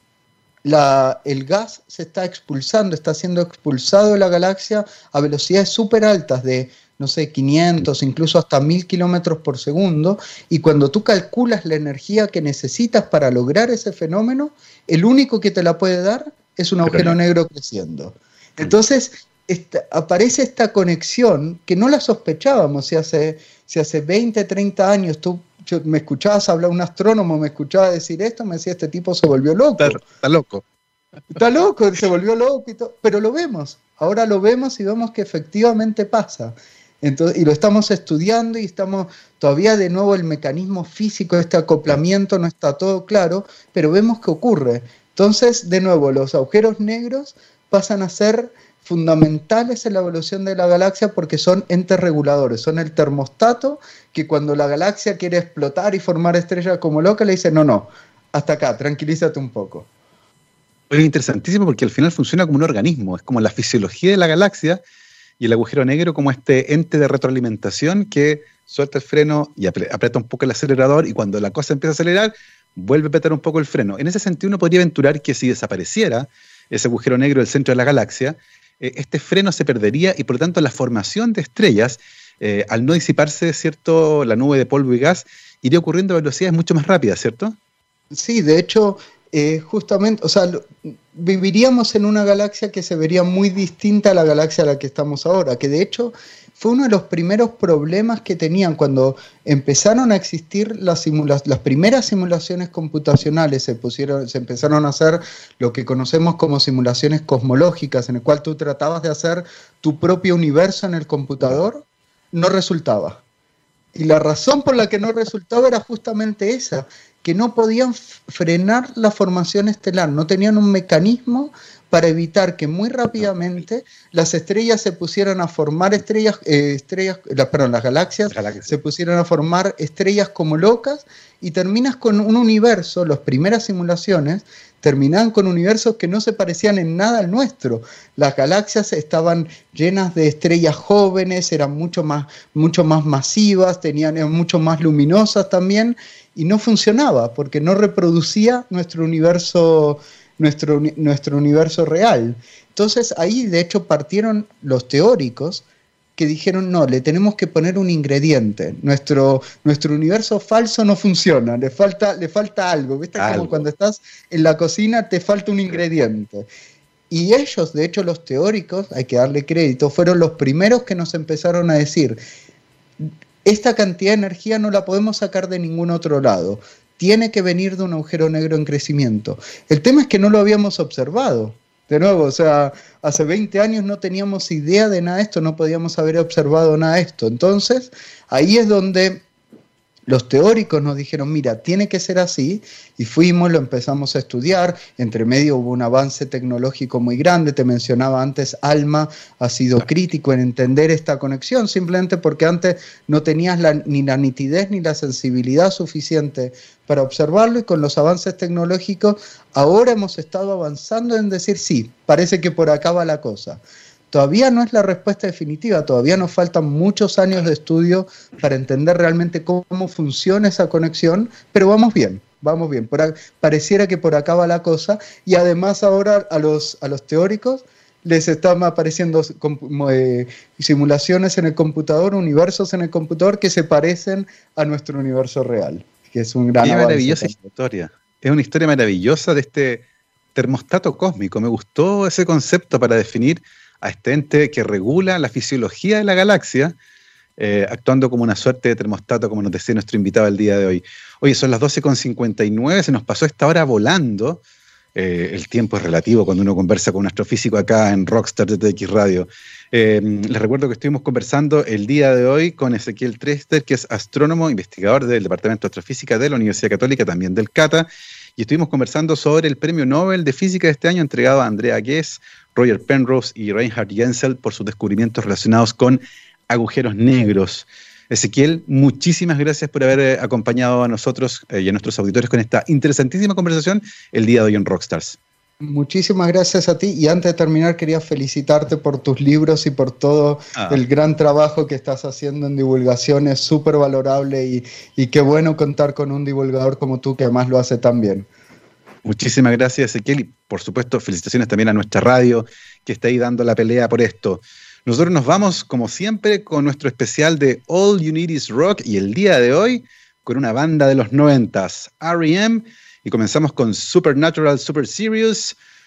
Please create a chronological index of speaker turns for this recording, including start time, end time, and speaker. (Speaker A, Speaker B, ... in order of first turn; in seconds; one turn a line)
Speaker A: 0.7-30.0
Speaker B: 16.9-17.1
Speaker B: 29.8-30.6
Speaker A: 31.3-59.9
Speaker B: 60.9-64.8
Speaker B: 65.4-87.6
Speaker A: 88.1-113.2
Speaker A: 113.9-155.7
Speaker B: 128.3-128.7
Speaker A: 156.2-166.5
Speaker B: 163.2-163.7
Speaker A: 167.1-172.2
Speaker A: 173.4-189.2
Speaker A: 190.1-237.4
Speaker B: 236.6-246.8
Speaker B: 247.4-254.4
Speaker B: 255.0-285.2
Speaker A: 285.6-298.3
Speaker B: 290.6-290.8
Speaker B: 299.1-315.6